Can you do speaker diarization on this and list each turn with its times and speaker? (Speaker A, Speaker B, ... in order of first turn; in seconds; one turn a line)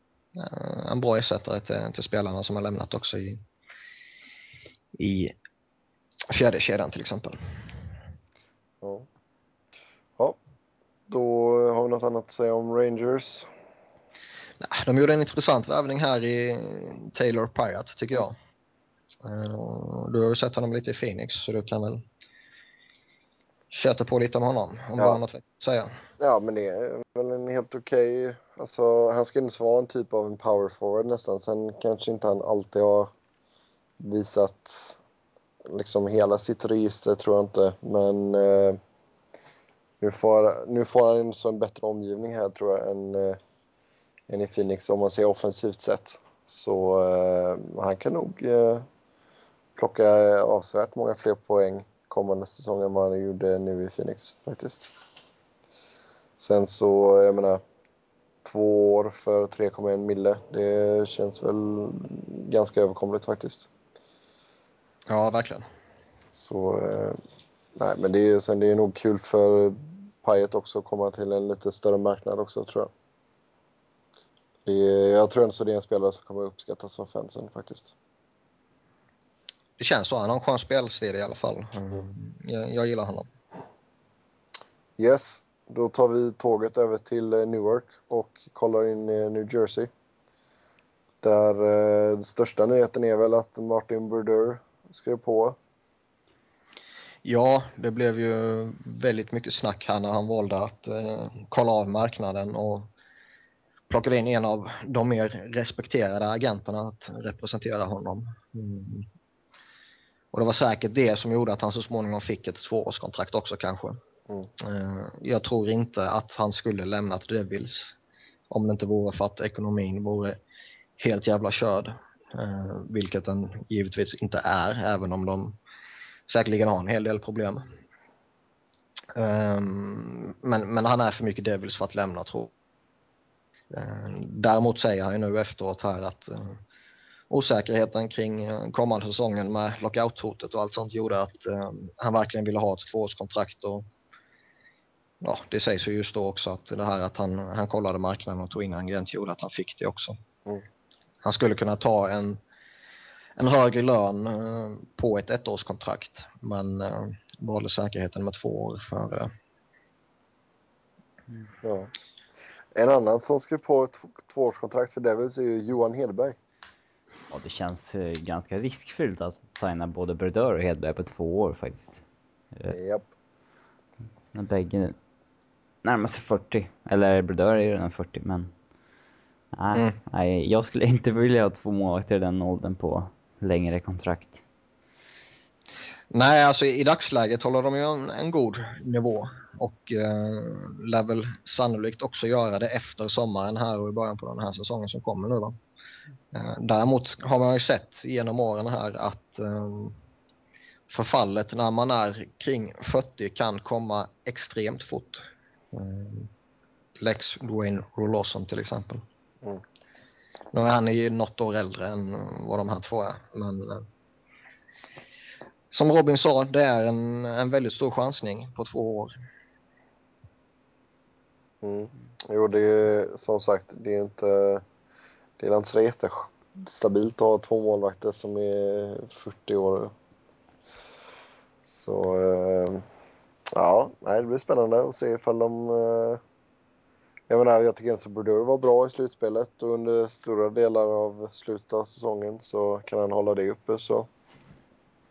Speaker A: 0.3-3.4
Speaker A: 5.0-5.3
Speaker A: 6.3-7.4
Speaker B: 8.8-9.1
Speaker B: 11.1-13.5
Speaker A: 14.6-18.4
Speaker A: 19.2-22.0
Speaker A: 23.7-25.9
Speaker B: 26.2-33.1
Speaker B: 34.0-35.0
Speaker B: 35.6-38.8
Speaker B: 40.0-43.4
Speaker B: 44.3-48.9
Speaker B: 49.8-54.9
Speaker B: 56.4-57.6
Speaker B: 58.4-63.7
Speaker A: 65.1-65.6
Speaker B: 66.3-67.2
Speaker B: 67.8-72.9
Speaker B: 74.7-77.9
Speaker A: 79.8-83.3
Speaker B: 85.0-89.9
Speaker B: 91.2-95.6
Speaker A: 97.2-102.9
Speaker A: 103.9-109.1
Speaker A: 110.3-114.0
Speaker A: 114.6-118.0
Speaker A: 118.5-120.4
Speaker A: 121.0-125.6
Speaker A: 126.3-127.7
Speaker A: 129.1-132.5
Speaker A: 133.7-136.6
Speaker A: 137.3-143.8
Speaker A: 145.2-150.1
Speaker A: 151.2-152.4
Speaker A: 153.4-159.3
Speaker B: 161.6-161.9
Speaker B: 162.7-166.4
Speaker C: 167.3-172.0
Speaker B: 172.7-173.1
Speaker C: 174.3-174.9
Speaker C: 175.8-178.5
Speaker C: 179.5-184.4
Speaker A: 186.1-195.5
Speaker A: 196.3-199.9
Speaker A: 200.9-206.3
Speaker A: 207.0-209.0
Speaker A: 210.5-213.8
Speaker A: 215.7-219.1
Speaker B: 221.6-224.6
Speaker B: 225.4-229.9
Speaker B: 231.7-232.8
Speaker B: 233.5-236.2
Speaker B: 237.3-244.1